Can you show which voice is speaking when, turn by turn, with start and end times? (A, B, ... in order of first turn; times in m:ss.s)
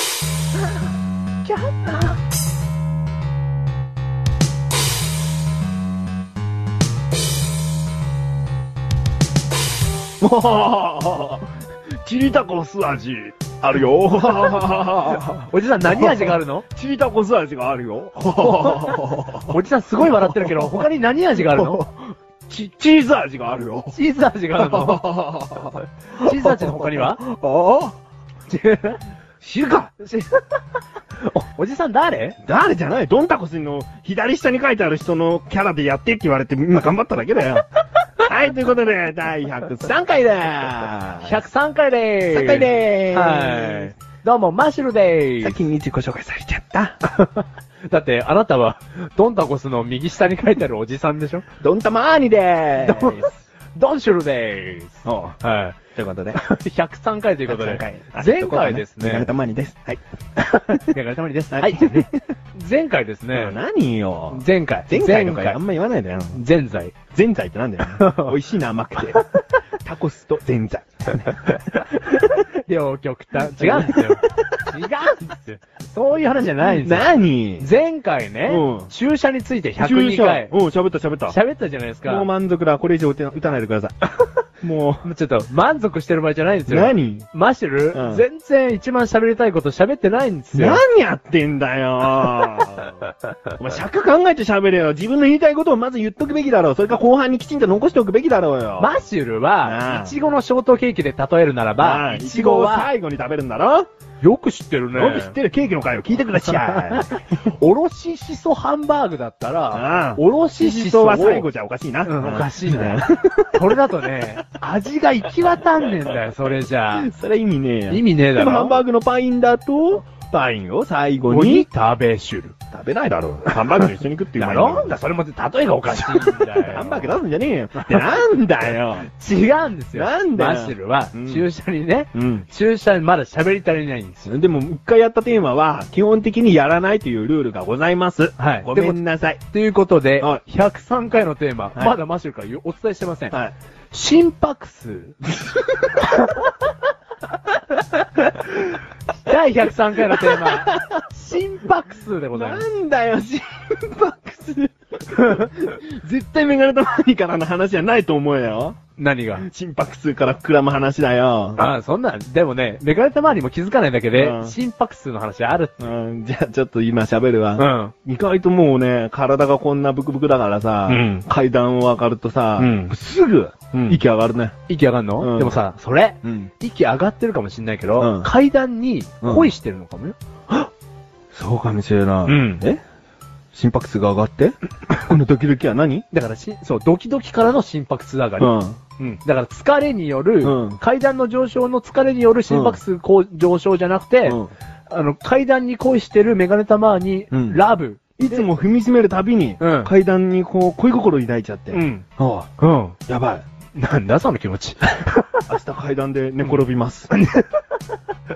0:01.6-0:02.1 A
0:10.2-0:11.5 A
0:12.0-0:20.7 A
0:15.2-0:16.7 B
0:18.4-0:21.9 B
0:21.3-0:24.0 A
0:23.9-0:25.1 B
0:24.6-0:28.0 A
0:26.1-0:27.2 B
0:28.5-0:29.0 B
0:29.4-0:30.0 A
0:30.0-0:30.6 B
0:31.2-0:32.4 B
0:32.4-0:37.6 A
0:38.2-0:41.5 A
0:41.2-0:45.6 B
0:42.3-0:43.9 A
0:45.4-0:47.0 A
0:47.0-0:51.4 B
0:51.6-0:53.3 A
0:52.8-0:55.8 B
0:55.0-0:55.4 A
0:56.0-0:56.4 A
0:56.3-0:59.3 B
0:57.5-1:00.0 A
1:00.4-1:03.6 B
1:00.5-1:00.9 A
1:01.5-1:02.2 A
1:03.3-1:06.4 A
1:04.3-1:05.6 B
1:06.3-1:06.9 B
1:07.1-1:09.2 A
1:07.9-1:08.4 B
1:09.8-1:12.3 A
1:11.4-1:17.1 B
1:13.4-1:14.5 A
1:16.6-1:17.7 A
1:17.6-1:20.5 B
1:18.5-1:18.9 A
1:19.8-1:21.4 A
1:21.3-1:22.3 B
1:22.0-1:23.9 A
1:24.6-1:25.1 A
1:25.0-1:30.8 B
1:26.7-1:27.3 A
1:27.9-1:28.2 A
1:30.5-1:33.0 A
1:33.6-1:38.9 A
1:38.8-1:42.9 B
1:39.6-1:40.1 A
1:41.8-1:43.9 A
1:44.2-1:45.3 B
1:44.9-1:47.2 A
1:46.5-1:51.5 B
1:49.7-1:53.8 A
1:52.0-1:57.1 B
1:56.9-2:01.7 A
1:57.9-1:58.8 B
2:01.3-2:02.6 B
2:02.7-2:04.9 A
2:04.4-2:07.2 B
2:05.8-2:09.1 A
2:09.1-2:14.3 B
2:09.9-2:11.5 A
2:12.1-2:12.5 A
2:14.2-2:19.4 A
2:18.4-2:19.0 B
2:19.5-2:23.4 B
2:23.9-2:25.2 B
2:26.0-2:26.4 B
2:29.2-2:32.6 B
2:30.1-2:31.0 A
2:32.3-2:38.8 A
2:39.0-2:39.5 B
2:39.4-2:41.6 A
2:41.6-2:45.8 B
2:44.2-2:44.5 A
2:45.8-2:54.5 A
2:47.6-2:47.9 B
2:50.9-2:51.2 B
2:52.6-2:52.9 B
2:54.7-3:00.2 B
2:55.2-2:55.6 A
2:56.2-2:56.5 A
2:58.0-2:58.3 A
2:59.2-2:59.5 A
3:01.3-3:02.8 A
3:02.2-3:02.6 B
3:03.5-3:06.0 A
3:06.1-3:18.5 B
3:08.4-3:08.8 A
3:10.4-3:10.8 A
3:12.5-3:12.8 A
3:14.2-3:14.5 A
3:17.3-3:17.6 A
3:18.2-3:22.5 A
3:19.6-3:19.9 B
3:21.7-3:22.1 B
3:22.6-3:23.0 B
3:23.1-3:23.4 A
3:23.8-3:25.4 B
3:25.5-3:27.1 A
3:27.1-3:27.6 B